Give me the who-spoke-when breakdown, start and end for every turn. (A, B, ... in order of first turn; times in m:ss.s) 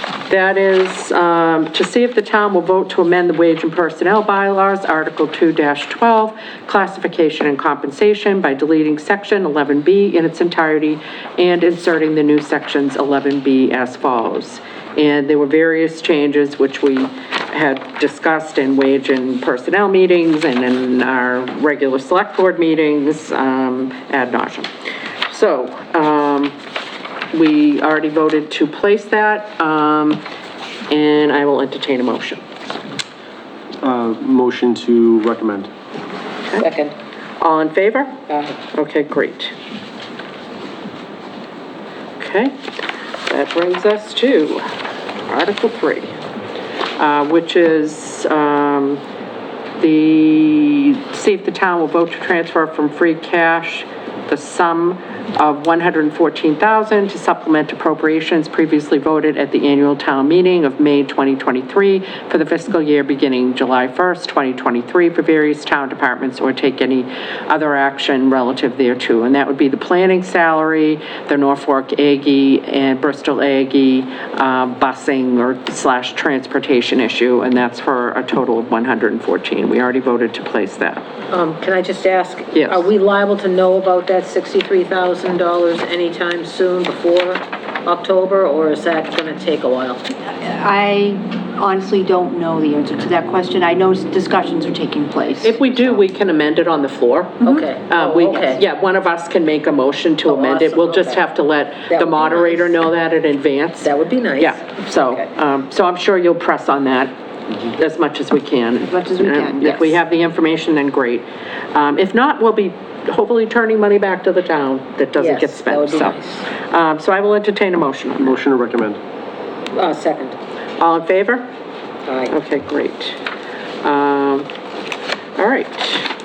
0:00.3-0:24.7 A
0:25.3-0:26.5 A
0:27.3-0:30.2 A
0:30.9-0:32.4 A
0:33.8-0:35.7 B
0:36.6-0:36.9 C
0:37.4-0:38.2 A
0:38.3-0:38.6 C
0:38.7-0:39.5 A
0:42.2-0:42.6 A
0:43.2-0:44.7 A
0:45.2-0:46.1 A
0:47.0-0:49.0 A
0:49.8-1:21.0 A
1:21.3-1:30.0 C
1:22.5-1:22.9 A
1:30.3-1:35.8 D
1:35.4-1:58.4 A
1:37.4-1:38.6 C
1:40.2-1:41.3 C
1:41.9-1:42.8 C
1:43.8-1:45.2 C
1:48.8-1:50.0 D
1:55.2-1:56.4 C
1:58.2-1:59.0 B
1:59.7-2:00.4 C
2:00.8-2:01.5 A
2:02.0-2:02.3 C
2:02.3-2:03.2 A
2:03.8-2:04.5 A
2:05.4-2:06.1 A